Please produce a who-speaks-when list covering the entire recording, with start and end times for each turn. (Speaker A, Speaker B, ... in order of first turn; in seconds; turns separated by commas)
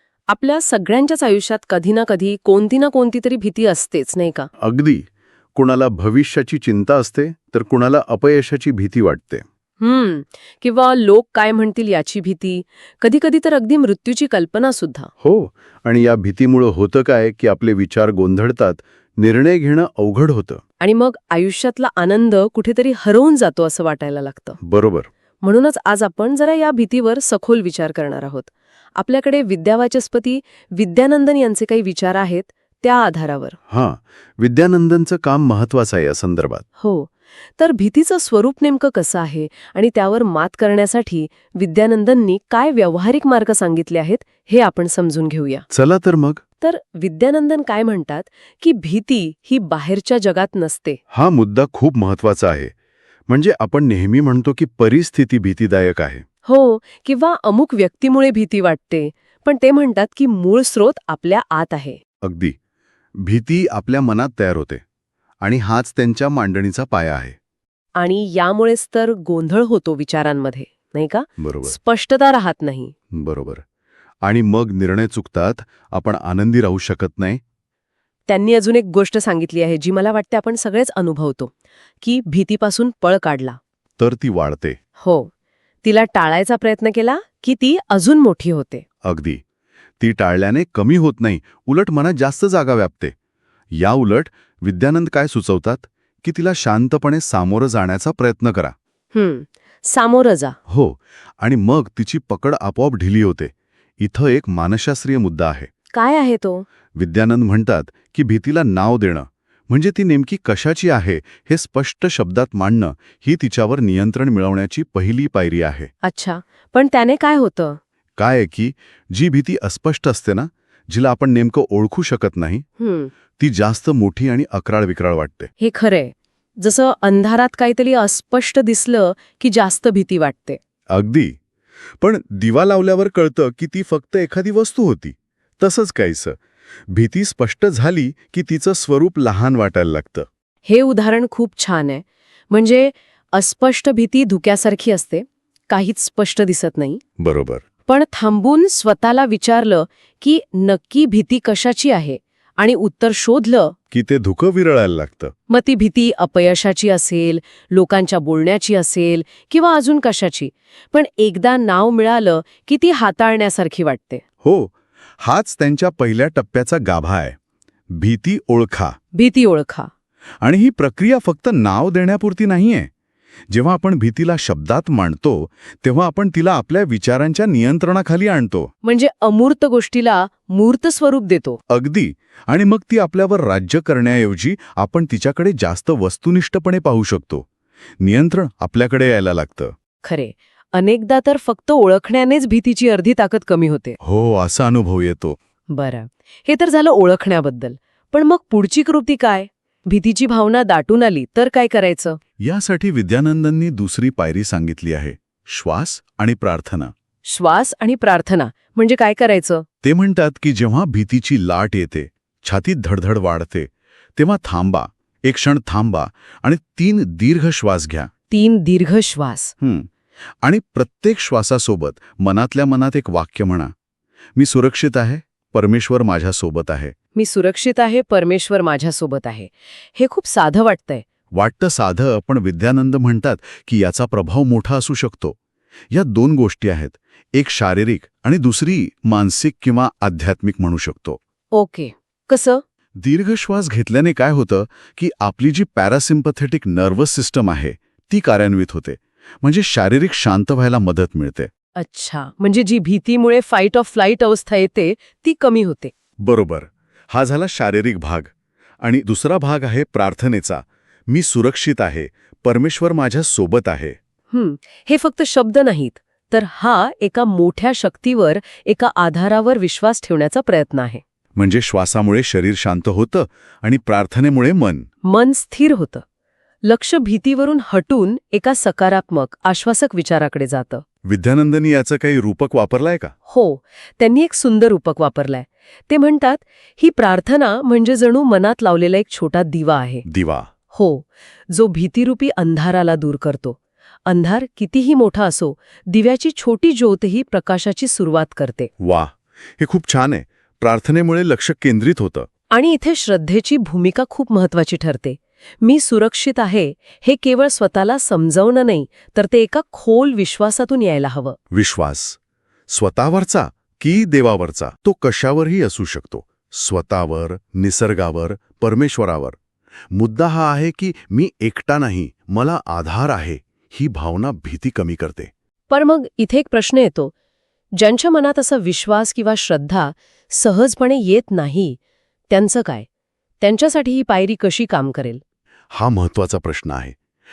Speaker A: 0.3-4.5, Speaker B: 4.6-9.4, Speaker A: 9.8-15.1, Speaker B: 15.2-20.6, Speaker A: 20.8-24.6, Speaker B: 24.6-25.1, Speaker A: 25.4-33.6, Speaker B: 33.7-36.6, Speaker A: 36.8-45.6, Speaker B: 45.7-46.4, Speaker A: 46.6-51.0, Speaker B: 51.1-52.7, Speaker B: 53.3-56.2, Speaker A: 56.5-62.0, Speaker B: 62.2-62.6, Speaker B: 63.2-64.8, Speaker B: 65.4-67.3, Speaker A: 68.0-72.9, Speaker B: 71.4-71.8, Speaker B: 73.1-73.6, Speaker B: 74.2-77.4, Speaker A: 78.3-83.6, Speaker B: 84.0-84.8, Speaker A: 85.0-85.3, Speaker A: 85.8-88.8, Speaker B: 89.0-89.4, Speaker B: 90.0-93.1, Speaker B: 93.7-98.7, Speaker A: 99.1-100.5, Speaker B: 100.7-105.7, Speaker A: 105.9-106.7, Speaker B: 106.9-115.9, Speaker A: 116.0-117.8, Speaker B: 118.2-122.6, Speaker A: 122.8-123.1, Speaker B: 123.4-125.5, Speaker A: 125.6-130.6, Speaker B: 130.9-131.4, Speaker B: 132.0-136.4, Speaker B: 136.9-140.2, Speaker A: 140.6-147.0, Speaker B: 147.2-147.6, Speaker A: 147.9-153.7, Speaker B: 153.9-155.3, Speaker A: 155.5-164.2, Speaker B: 164.4-167.4, Speaker B: 167.9-168.9, Speaker A: 169.1-169.9, Speaker B: 170.4-172.9, Speaker B: 173.5-178.7, Speaker A: 178.8-181.6, Speaker B: 181.7-187.4, Speaker B: 188.0-189.7, Speaker A: 190.0-194.0, Speaker B: 194.0-195.4, Speaker A: 195.7-202.2, Speaker B: 202.4-206.9, Speaker A: 207.2-209.6, Speaker B: 209.8-218.1, Speaker A: 218.3-219.5, Speaker B: 219.6-219.9, Speaker B: 220.4-223.7, Speaker B: 224.3-226.9, Speaker A: 227.2-231.0, Speaker B: 231.3-235.4, Speaker B: 235.9-241.2, Speaker A: 241.5-242.6, Speaker B: 243.0-251.5, Speaker A: 251.8-255.9, Speaker B: 256.2-264.0, Speaker A: 264.3-271.0, Speaker B: 271.4-274.9, Speaker A: 275.0-276.0, Speaker A: 276.6-280.8, Speaker B: 281.0-283.1, Speaker A: 283.3-290.1, Speaker B: 290.1-290.5, Speaker A: 290.7-298.7, Speaker B: 298.8-302.3, Speaker A: 302.5-311.4, Speaker B: 311.5-319.4, Speaker B: 319.9-325.3, Speaker A: 325.7-327.1, Speaker A: 327.8-331.8, Speaker A: 332.3-332.9, Speaker A: 333.4-335.2, Speaker B: 335.7-337.0